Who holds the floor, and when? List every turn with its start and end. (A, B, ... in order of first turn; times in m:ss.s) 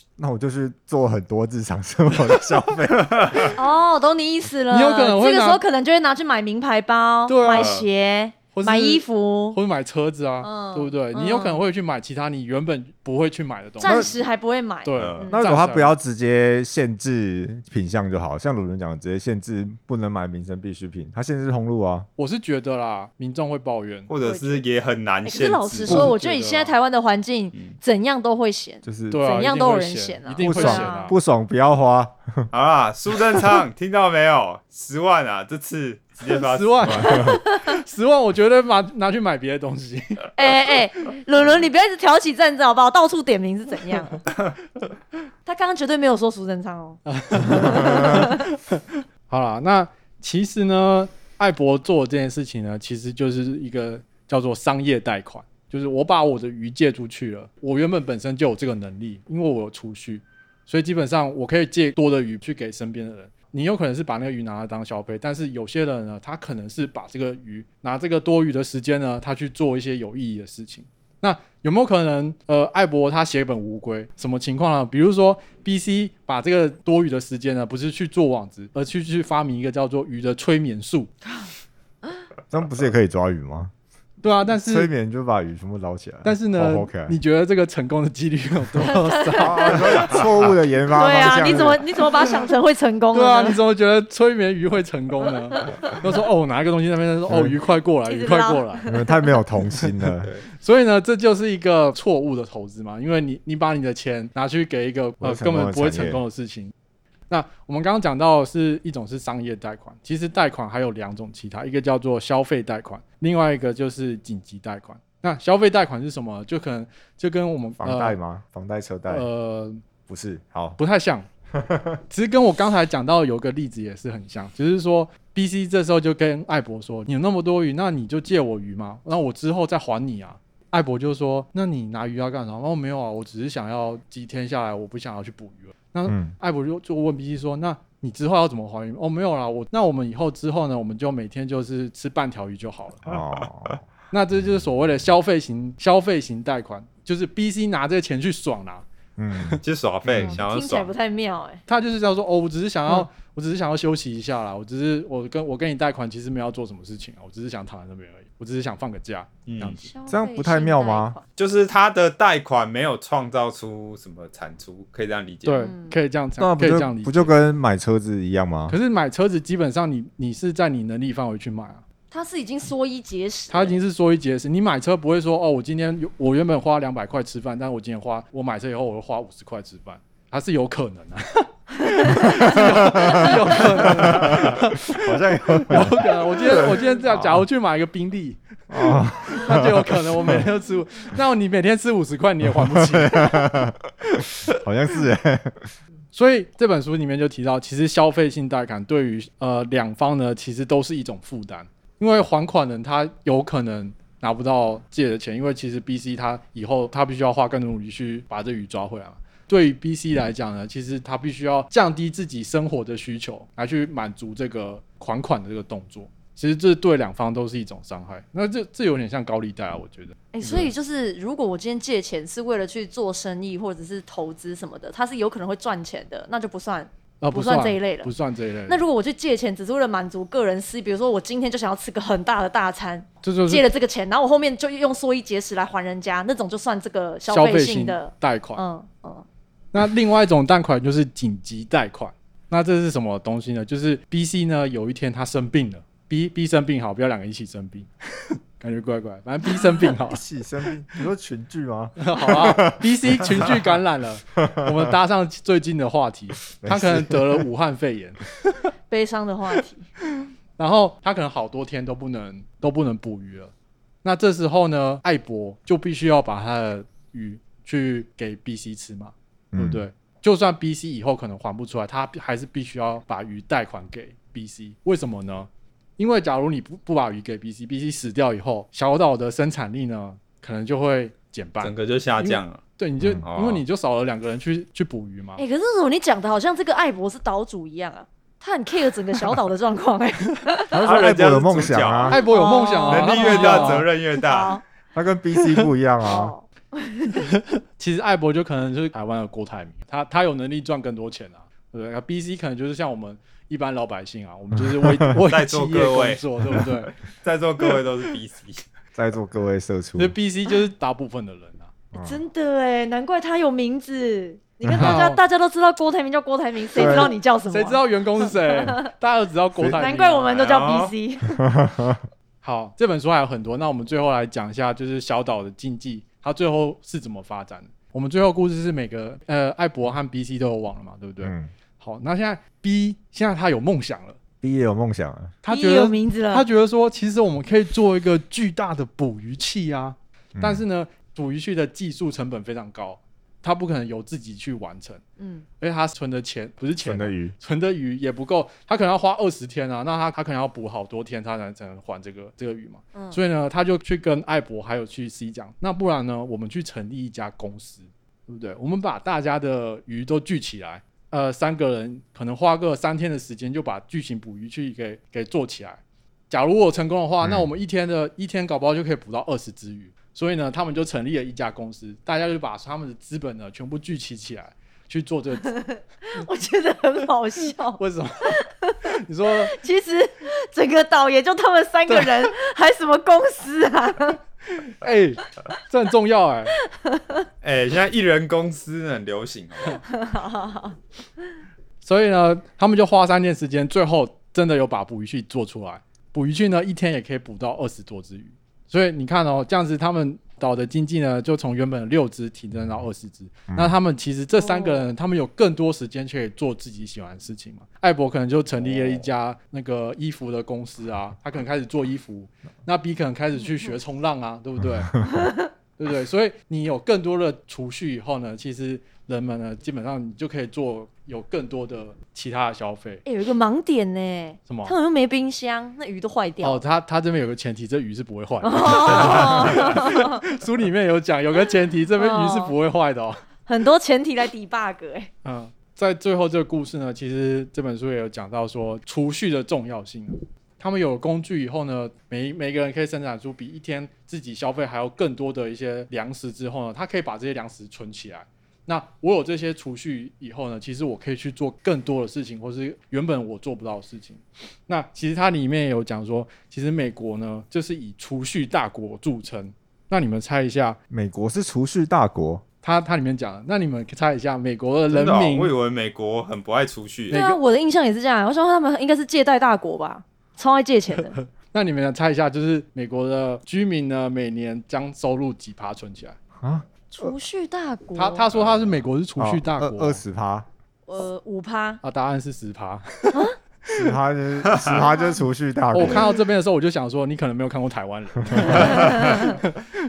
0:00.2-0:03.6 A
0:03.0-0:03.5 B
0:03.5-0:09.6 C
0:04.7-0:05.6 D
0:07.3-0:07.8 D
0:07.5-0:07.8 B
0:08.5-0:14.1 D
0:10.4-0:11.6 C
0:13.8-0:15.4 C
0:13.8-0:14.1 A
0:14.8-0:15.9 D
0:15.0-0:15.2 B
0:15.3-0:22.1 A
0:22.2-0:24.1 D
0:24.1-0:26.0 B
0:24.2-0:24.6 C
0:25.2-0:31.1 C
0:25.7-0:26.7 D
0:28.8-0:29.2 A
0:29.1-0:31.2 D
0:30.4-0:32.5 A
0:32.5-0:37.4 B
0:36.2-0:40.3 D
0:37.0-0:37.3 A
0:40.4-0:44.2 C
0:45.4-0:48.4 C
0:47.0-1:21.1 D
1:22.5-1:23.7 A
1:24.2-1:24.9 D
1:24.5-1:27.2 A
1:26.2-1:30.2 D
1:28.9-1:30.2 C
1:29.3-1:31.8 A
1:30.9-1:33.6 C
1:33.1-1:38.9 D
1:37.3-1:37.5 A
1:38.1-1:39.1 C
1:38.8-1:40.3 A
1:39.7-1:46.7 D
1:45.2-1:46.2 A
1:47.3-1:58.2 D
1:57.8-1:59.2 A
1:59.1-1:59.8 D
2:00.1-2:00.8 A
2:00.8-2:01.3 D
2:01.5-2:02.0 A
2:02.1-2:23.2 D
2:16.1-2:16.3 A
2:23.0-2:23.8 A
2:24.1-2:29.6 D
2:29.2-2:30.3 A
2:29.6-2:30.9 B
2:30.2-2:31.6 C
2:31.7-2:39.8 D
2:39.4-2:39.8 B
2:39.7-2:41.2 C
2:40.1-2:41.2 A
2:41.4-2:45.6 B
2:45.4-2:47.3 D
2:45.5-2:45.9 C
2:46.4-2:48.8 A
2:48.7-2:51.8 D
2:52.1-2:53.8 C
2:53.5-3:13.7 D
3:02.0-3:02.5 C
3:02.4-3:07.4 A
3:03.1-3:03.4 C
3:08.7-3:10.4 A
3:12.4-3:15.7 A
3:16.1-3:40.7 D
3:40.3-3:48.1 C
3:47.2-3:48.8 D
3:48.7-3:59.2 C
3:53.2-3:53.6 D
3:57.3-3:58.6 D
3:59.7-4:10.2 D
4:09.8-4:13.6 A
4:12.0-4:18.6 D
4:14.5-4:14.8 A
4:16.6-4:17.4 A
4:18.9-4:19.8 C
4:20.6-4:23.5 D
4:24.0-4:45.4 D
4:29.5-4:29.8 A
4:41.6-4:42.6 B
4:43.2-4:43.6 B
4:45.4-4:50.8 C
4:50.7-4:52.2 A
4:50.7-4:52.2 B
4:52.1-4:53.9 D
4:52.1-4:54.6 C
4:52.9-4:54.6 B
4:54.9-4:56.3 A
4:56.0-4:57.3 C
4:57.2-5:06.9 D
5:04.8-5:05.1 A
5:05.2-5:06.2 B
5:07.2-5:08.6 B
5:08.9-5:10.2 A
5:10.0-5:11.7 D
5:11.9-5:12.2 A
5:11.9-5:18.8 C
5:14.7-5:15.0 A
5:14.7-5:15.2 D
5:16.7-5:17.1 A
5:17.5-5:20.3 D
5:19.7-5:21.4 C
5:20.3-5:20.9 B
5:21.4-5:22.0 A
5:22.4-5:34.2 D
5:31.2-5:31.5 A
5:34.4-5:35.3 A
5:35.4-5:45.0 D
5:35.5-5:36.4 C
5:40.3-5:40.6 A
5:45.2-5:45.4 C
5:45.6-6:15.6 D
5:46.8-5:47.3 A
5:52.9-5:53.2 C
6:07.2-6:07.5 A
6:15.4-6:17.8 C
6:17.8-6:19.5 D
6:18.4-6:18.9 C
6:19.5-6:24.2 C
6:21.9-6:22.1 D
6:24.6-6:26.5 D
6:26.8-6:27.2 C
6:27.4-6:29.8 B
6:29.8-6:30.8 C
6:31.8-6:55.0 D
6:43.5-6:43.8 A
6:44.4-6:44.9 C
6:48.6-6:49.0 A
6:53.4-6:53.7 C
6:55.0-6:55.5 C
6:55.8-7:03.0 D
7:03.0-7:06.6 C
7:04.5-7:04.7 D
7:06.4-7:13.2 D
7:08.4-7:10.2 C
7:12.0-7:12.5 C
7:13.4-7:15.1 C
7:15.2-7:40.8 D
7:40.9-7:42.4 A
7:42.6-7:45.5 D
7:44.9-7:47.2 B
7:47.1-7:47.4 D
7:47.1-7:51.2 C
7:51.2-7:56.2 D
7:56.4-7:57.1 A
7:56.9-7:58.2 C
7:58.0-8:00.0 D
7:59.2-8:00.5 A
8:00.9-8:01.8 C
8:01.8-8:03.9 D
8:03.7-8:06.1 A
8:04.4-8:04.8 B
8:04.7-8:05.2 C
8:05.7-8:09.8 D
8:05.8-8:06.2 C
8:08.3-8:08.6 A
8:08.6-8:09.2 C
8:09.0-8:09.3 B